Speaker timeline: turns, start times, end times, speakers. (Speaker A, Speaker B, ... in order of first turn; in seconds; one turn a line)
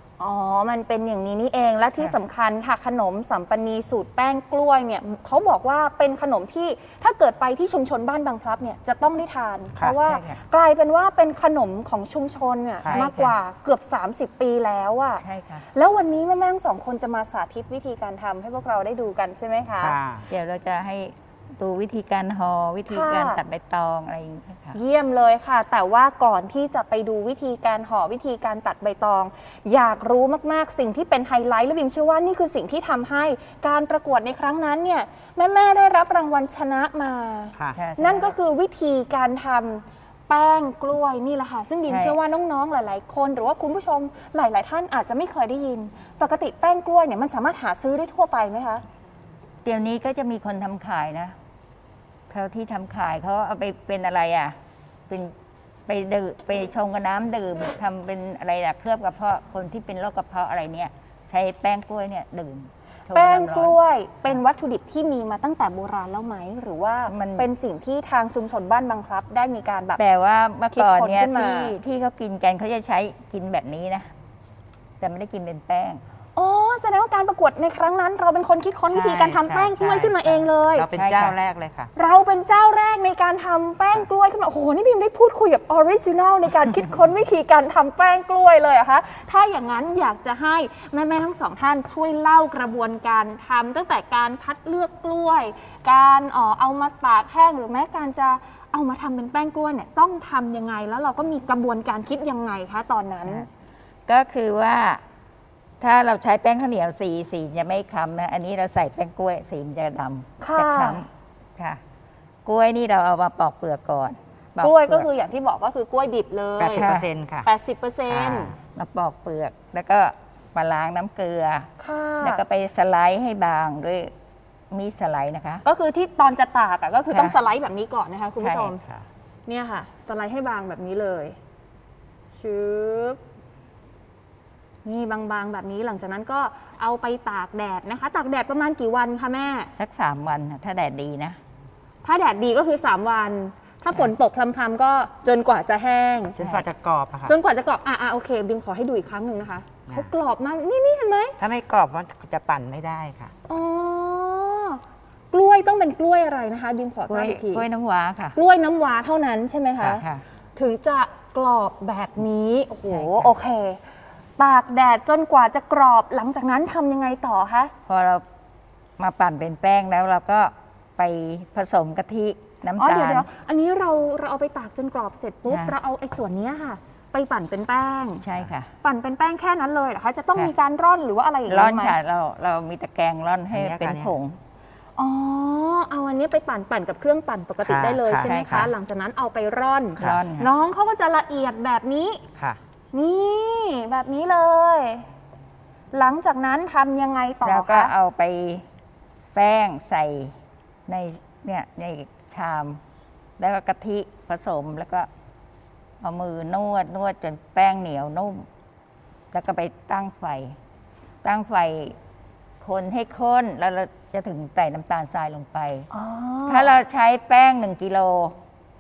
Speaker A: 0.2-15.2
Speaker B: 9.9-10.4
Speaker B: 12.9-13.3
Speaker B: 15.2-15.7
Speaker A: 15.7-19.9
Speaker C: 19.8-20.3
Speaker B: 20.3-24.8
Speaker A: 22.9-23.4
Speaker A: 24.8-48.8
Speaker B: 37.8-38.4
Speaker B: 41.9-42.1
Speaker B: 49.6-51.4
Speaker B: 52.3-54.6
Speaker B: 55.1-55.3
Speaker B: 55.9-63.8
Speaker A: 63.1-70.0
Speaker B: 67.1-67.5
Speaker B: 70.0-74.1
Speaker A: 70.7-71.8
Speaker B: 75.0-76.0
Speaker A: 76.4-80.9
Speaker C: 78.9-81.9
Speaker B: 81.0-81.4
Speaker A: 82.0-103.5
Speaker B: 104.1-105.0
Speaker B: 105.8-111.8
Speaker A: 110.4-111.0
Speaker B: 112.5-115.1
Speaker A: 114.6-116.9
Speaker C: 116.6-117.5
Speaker B: 116.7-117.1
Speaker A: 117.5-118.5
Speaker C: 118.1-118.6
Speaker B: 118.8-121.7
Speaker A: 121.8-122.4
Speaker B: 122.2-124.1
Speaker B: 124.7-125.6
Speaker A: 125.6-128.8
Speaker B: 127.1-127.4
Speaker B: 128.4-128.7
Speaker C: 128.8-129.1
Speaker A: 129.5-131.4
Speaker A: 132.3-133.2
Speaker A: 134.8-139.7
Speaker B: 139.8-141.4
Speaker A: 142.0-146.4
Speaker B: 146.4-146.6
Speaker C: 146.4-147.3
Speaker A: 147.3-151.4
Speaker C: 151.4-153.3
Speaker A: 153.5-154.8
Speaker A: 155.3-157.7
Speaker B: 157.1-158.4
Speaker A: 158.3-160.0
Speaker B: 159.8-160.2
Speaker A: 160.6-163.8
Speaker B: 162.9-163.3
Speaker A: 164.4-167.7
Speaker B: 167.9-168.2
Speaker B: 169.0-173.3
Speaker A: 172.8-178.2
Speaker B: 175.5-175.7
Speaker B: 178.2-178.7
Speaker A: 178.8-181.9
Speaker B: 181.5-184.4
Speaker C: 183.5-184.2
Speaker A: 185.0-192.2
Speaker C: 187.6-188.7
Speaker B: 188.2-188.7
Speaker B: 190.0-190.5
Speaker A: 192.9-195.1
Speaker A: 195.9-197.9
Speaker B: 197.4-198.7
Speaker B: 199.3-200.4
Speaker B: 200.9-202.8
Speaker B: 203.4-205.1
Speaker B: 206.0-208.5
Speaker B: 209.3-210.6
Speaker B: 211.2-212.0
Speaker B: 212.6-215.9
Speaker A: 215.9-216.7
Speaker B: 216.5-218.4